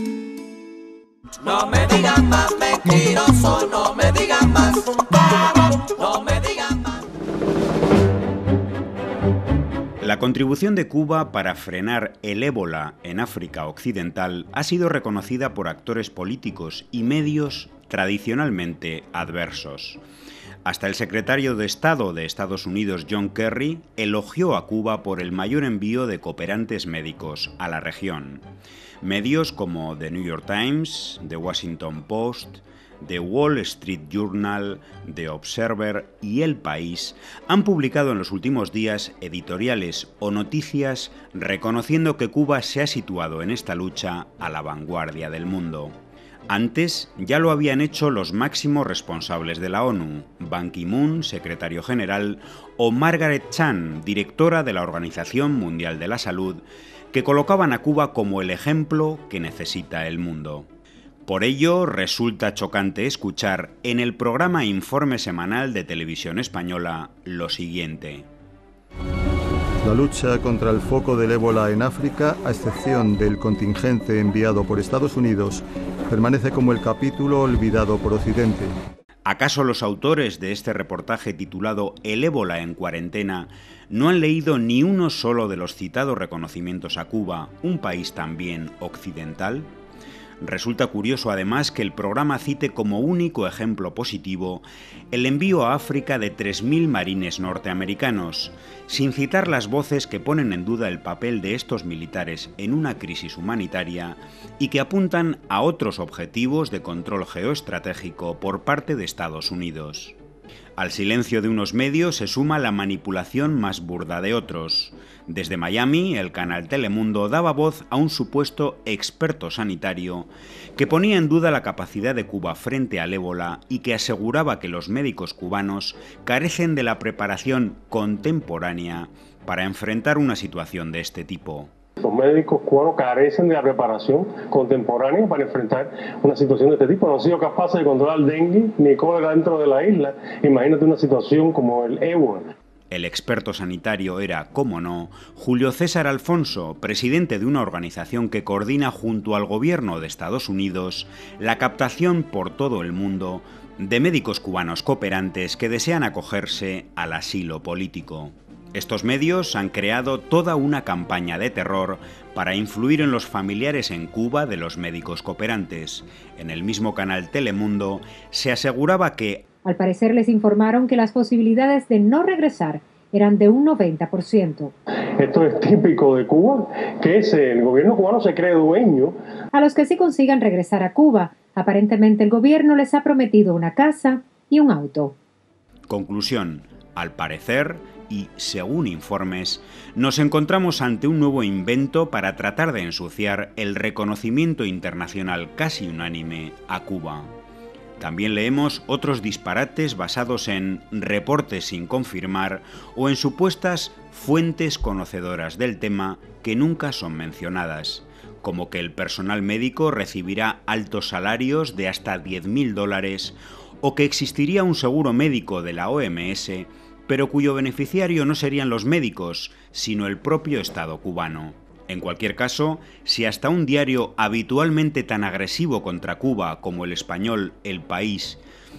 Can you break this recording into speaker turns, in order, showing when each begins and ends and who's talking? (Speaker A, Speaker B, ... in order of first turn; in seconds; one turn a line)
Speaker A: 1.4-5.0
Speaker A: 5.5-7.0
Speaker B: 10.0-20.0
Speaker B: 20.6-28.4
Speaker B: 29.0-45.9
Speaker B: 46.5-60.7
Speaker B: 61.2-68.2
Speaker C: 69.8-78.7
Speaker B: 79.2-89.7
Speaker B: 90.4-110.2
Speaker B: 110.8-131.7
Speaker D: 132.0-142.5
Speaker B: 142.9-169.4
Speaker E: 169.6-174.7
Speaker D: 175.2-179.1
Speaker E: 179.5-185.2
Speaker B: 185.9-197.3
Speaker B: 198.0-228.4